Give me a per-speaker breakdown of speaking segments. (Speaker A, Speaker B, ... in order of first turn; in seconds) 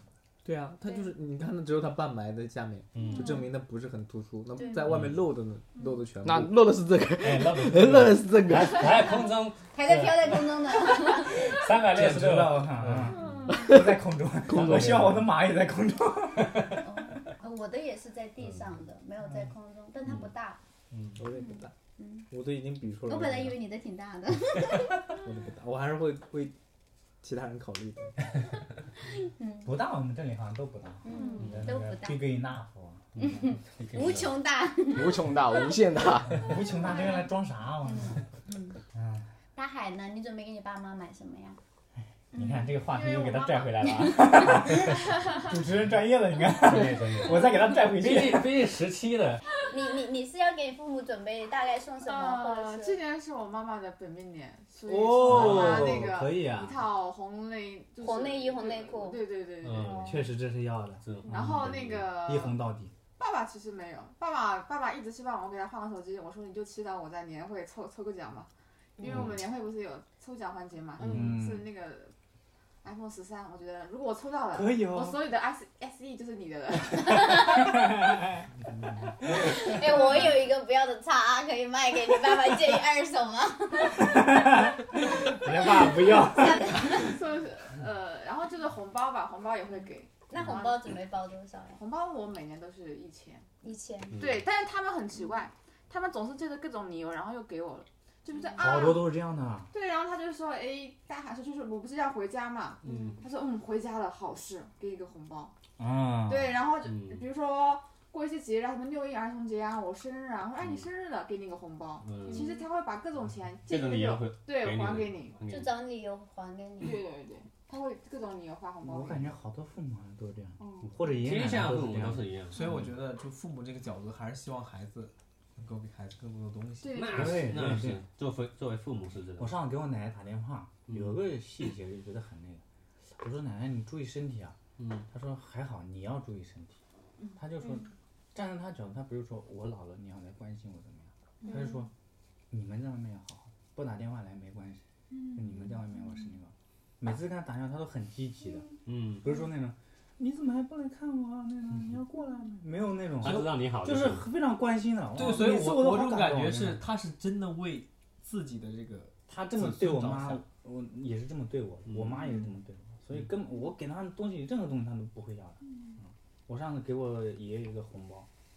Speaker A: 0.5-6.5, 14.6-15.1, 21.1-21.7, 22.3-23.6, 25.2-26.6, 27.2-28.2, 122.5-127.1, 155.1-160.4
Speaker B: 2.9-3.3, 4.8-5.3, 7.2-13.5, 14.5-15.3, 20.9-21.2, 31.4-31.7, 33.1-34.3, 46.6-49.4, 55.2-55.9, 59.6-60.2, 61.0-62.1, 69.0-69.3, 71.0-71.3, 106.9-107.2, 112.0-112.6, 113.7-115.7, 121.2-122.9, 126.9-129.5, 130.9-131.2, 134.8-135.1, 148.9-149.2, 153.2-154.3
Speaker C: 3.0-3.5, 31.1-31.6, 36.9-37.1, 52.0-60.3, 61.3-62.6, 63.2-72.1, 72.8-77.6, 79.7-80.4, 86.6-90.8, 91.8-93.5, 94.2-99.1, 99.7-105.5, 106.3-115.4, 116.8-119.2, 120.6-120.9, 126.8-127.5, 141.4-141.8, 145.2-145.6
Speaker D: 4.5-4.9, 9.7-11.6, 16.8-20.6, 21.4-22.2, 23.1-25.0, 29.1-29.7, 31.0-32.2, 33.2-35.6, 37.9-38.8, 39.5-41.6, 42.3-44.7, 49.7-53.0, 58.0-59.2, 77.0-77.8, 79.2-84.6, 85.5-87.1, 90.3-91.8, 93.6-94.2, 102.8-103.2, 112.3-112.6, 115.5-117.0
Speaker E: 6.2-9.0, 34.9-36.5
Speaker F: 11.9-16.8, 29.6-33.2, 36.4-38.2, 38.9-39.3, 42.3-48.6, 54.9-56.8, 60.0-61.6, 62.2-62.9, 71.0-71.7, 74.5-75.2, 77.8-79.8, 83.9-86.8, 98.6-99.7, 105.8-106.6, 118.8-122.2, 127.1-128.0, 129.4-132.6, 133.2-134.6, 135.1-136.8, 137.4-141.9, 142.5-144.8, 145.3-148.7, 149.2-156.8, 159.3-165.6, 166.5-168.3